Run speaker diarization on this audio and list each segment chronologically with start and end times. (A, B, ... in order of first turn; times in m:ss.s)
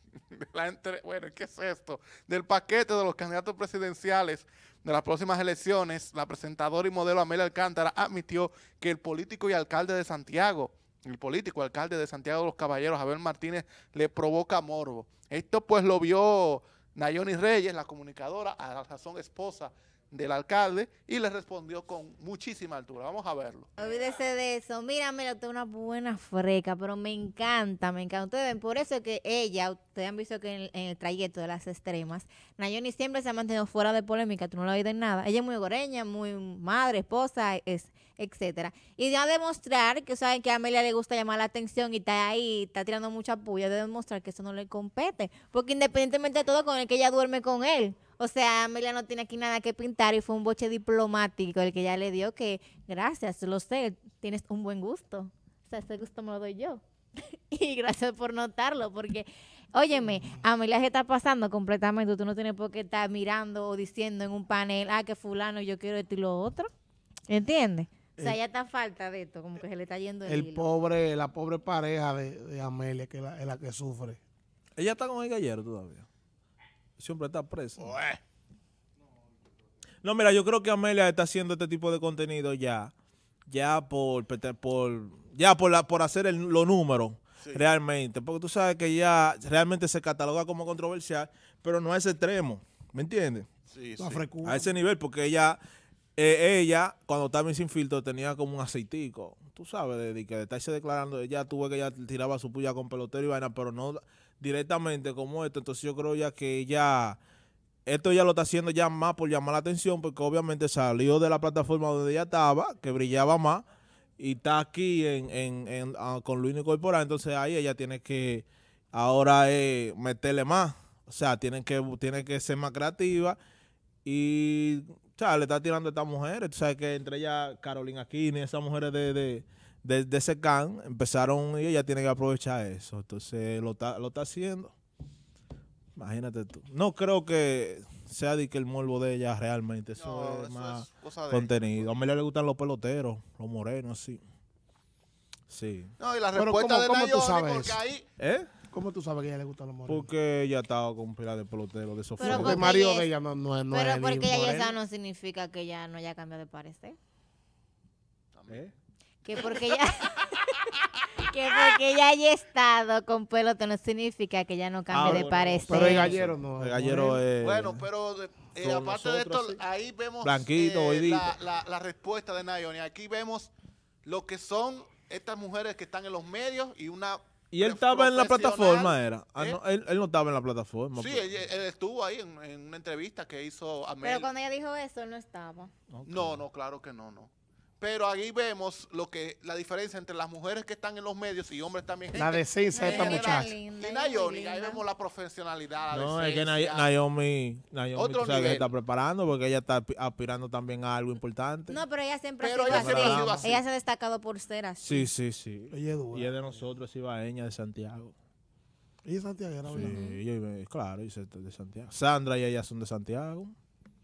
0:00.3-0:23.7 A
0:23.8-1:06.7 B
1:07.3-1:10.7 B
1:10.2-1:14.2 C
1:14.8-1:16.1 D
1:17.0-1:17.9 D
1:20.0-1:22.9 D
1:23.5-1:33.5 D
1:33.7-1:34.2 A
1:34.0-1:34.7 C
1:34.4-1:35.6 D
1:36.2-1:47.2 D
1:47.8-1:53.6 D
1:54.2-2:03.4 D
2:04.0-2:14.7 D
2:16.0-2:24.2 D
2:20.0-2:21.9 A
2:25.5-2:25.9 D
2:26.0-2:28.0 A
2:26.3-2:27.8 C
2:28.2-2:28.5 D
2:28.7-2:30.1 C
2:29.9-2:32.6 D
2:32.2-2:33.1 B
2:32.2-2:34.8 C
2:33.7-2:37.0 B
2:38.3-2:38.6 A
2:38.5-2:38.7 D
2:39.2-2:46.2 B
2:39.3-2:40.3 A
2:44.9-2:47.8 D
2:45.0-2:47.2 C
2:47.4-2:53.5 A
2:48.6-2:49.6 D
2:50.2-2:51.3 D
2:54.0-2:59.6 A
2:57.5-3:01.4 D
3:01.0-3:04.3 A
3:04.0-3:05.7 B
3:05.9-3:06.4 D
3:06.0-3:16.9 A
3:12.1-3:13.5 C
3:12.7-3:14.8 B
3:15.9-3:21.8 D
3:17.9-3:18.7 A
3:21.7-3:25.1 B
3:22.4-3:23.6 A
3:22.7-3:23.3 D
3:24.8-3:28.1 D
3:25.7-3:26.4 C
3:29.0-3:30.0 C
3:29.7-3:33.5 D
3:29.8-3:30.2 B